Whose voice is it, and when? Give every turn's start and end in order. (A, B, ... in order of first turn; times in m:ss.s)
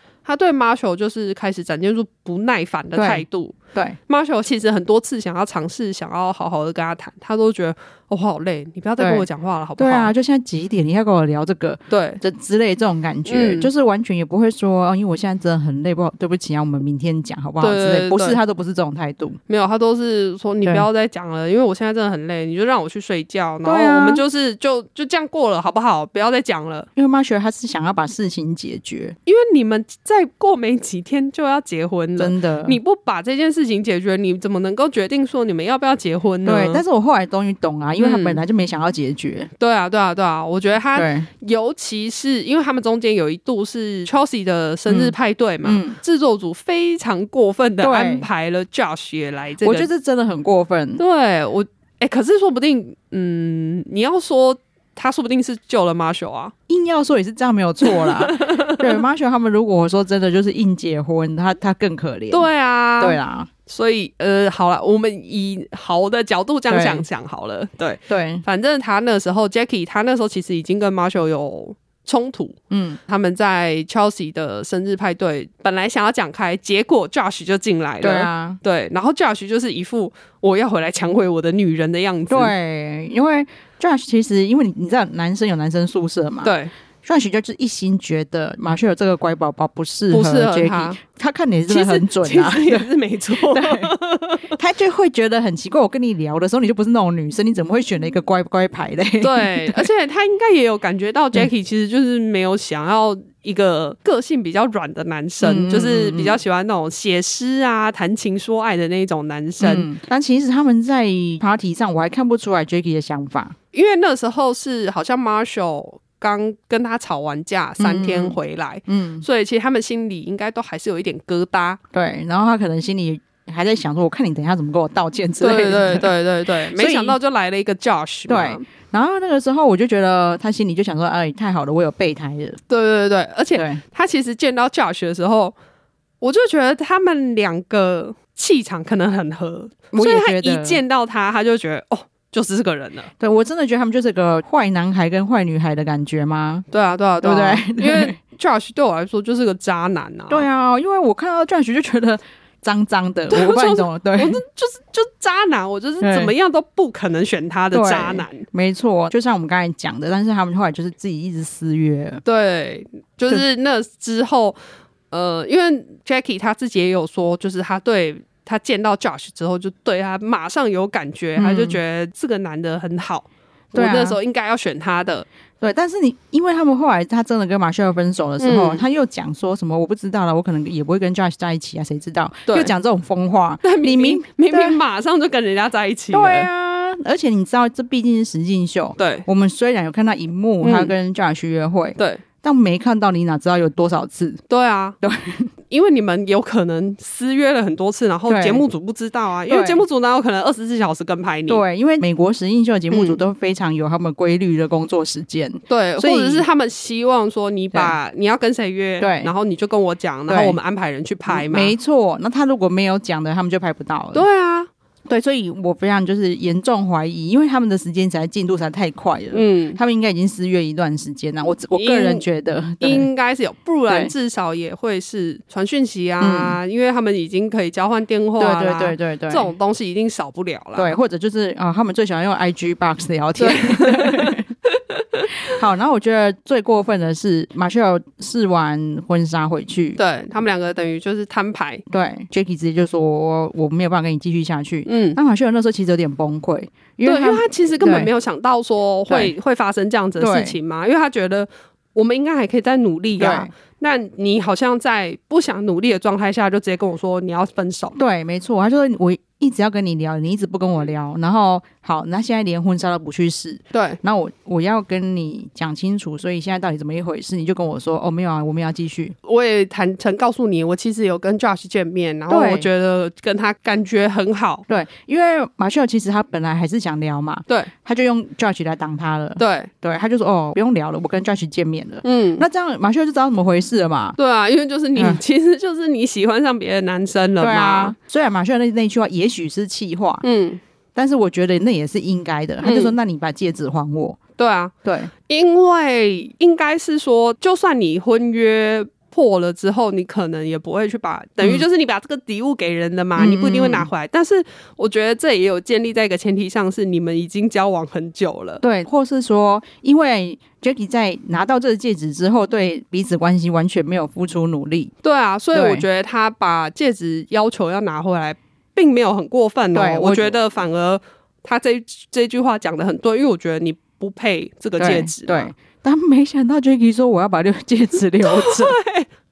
0:00.2-0:03.6 A
0:03.0-0:04.0 B
0:04.1-0:10.1 A
0:09.0-0:09.3 B
0:09.8-0:19.4 B
0:11.9-0:12.2 A
0:13.3-0:13.7 A
0:17.6-0:18.4 A
0:19.5-0:26.9 A
0:23.6-0:24.2 B
0:27.0-0:29.2 B
0:29.3-0:36.8 A
0:32.2-0:32.8 B
0:36.4-0:39.5 B
0:38.0-0:38.4 A
0:39.6-0:49.9 A
0:41.0-0:41.3 B
0:44.9-0:46.0 B
0:47.8-0:48.3 B
0:49.6-0:51.0 B
0:51.0-0:56.5 A
0:56.7-1:02.5 B
0:57.8-0:59.0 A
1:02.3-1:22.5 A
1:03.0-1:03.5 B
1:06.7-1:07.0 B
1:08.1-1:08.4 B
1:12.7-1:13.0 B
1:18.0-1:18.6 B
1:22.3-1:32.9 B
1:26.4-1:26.7 A
1:30.1-1:31.0 A
1:31.7-1:34.6 A
1:33.5-1:33.9 B
1:34.6-1:39.9 B
1:39.2-1:49.9 A
1:45.4-1:46.4 B
1:49.6-1:53.6 B
1:53.7-2:01.8 A
1:57.8-1:59.3 B
2:01.9-2:06.1 B
2:05.4-2:08.6 A
2:06.7-2:07.2 B
2:08.3-2:12.6 B
2:12.7-2:15.6 A
2:13.6-2:13.8 B
2:16.2-2:23.1 A
2:19.9-2:20.8 B
2:23.2-2:26.7 B
2:26.7-2:30.5 A
2:27.2-2:28.2 B
2:30.3-2:34.4 B
2:33.3-2:38.5 A
2:36.0-2:36.3 B
2:37.7-2:42.2 B
2:42.2-2:44.6 A
2:45.1-2:55.3 A
2:51.4-2:51.8 B
2:53.8-2:54.2 B
2:55.6-3:04.8 B
2:58.4-2:58.8 A
3:02.5-3:02.7 A
3:03.6-3:06.5 A
3:06.1-3:14.4 B
3:09.0-3:09.2 A
3:10.6-3:10.9 A
3:12.0-3:12.2 A
3:14.5-3:15.0 A
3:15.0-3:15.5 B
3:15.7-3:21.6 A
3:18.3-3:18.6 B
3:19.5-3:19.8 B
3:21.5-3:26.5 B
3:22.9-3:23.2 A
3:25.7-3:31.8 A
3:29.0-3:29.3 B
3:30.3-3:30.6 B
3:31.3-3:34.3 B
3:34.1-3:34.7 A
3:35.1-3:43.1 B
3:39.3-3:39.8 A
3:41.7-3:42.3 A
3:42.8-3:50.9 A
3:43.9-3:44.1 B
3:46.2-3:46.6 B
3:48.4-3:49.5 B
3:50.8-3:54.5 B
3:53.4-3:54.4 A
3:54.9-3:55.3 A
3:55.5-4:00.0 B
4:00.0-4:01.8 A
4:01.9-4:08.1 B
4:04.9-4:05.2 A
4:07.0-4:18.0 A
4:09.1-4:09.3 B
4:10.2-4:10.6 B
4:13.2-4:13.5 B
4:18.0-4:29.2 B
4:23.7-4:24.0 A
4:29.2-4:34.6 A
4:32.3-4:32.7 B
4:34.7-4:44.2 B
4:39.4-4:39.7 A
4:42.0-4:42.4 A
4:44.2-4:48.0 A
4:45.0-4:45.2 B
4:47.4-4:50.2 B
4:50.2-4:50.6 A
4:51.0-4:54.2 B
4:52.6-4:52.9 A
4:54.4-5:08.6 A
4:54.8-4:55.1 B
5:03.2-5:03.9 B
5:08.6-5:14.9 B
5:15.0-5:25.4 A
5:15.5-5:15.8 B
5:19.7-5:20.4 B
5:24.8-5:28.8 B
5:28.2-5:29.1 A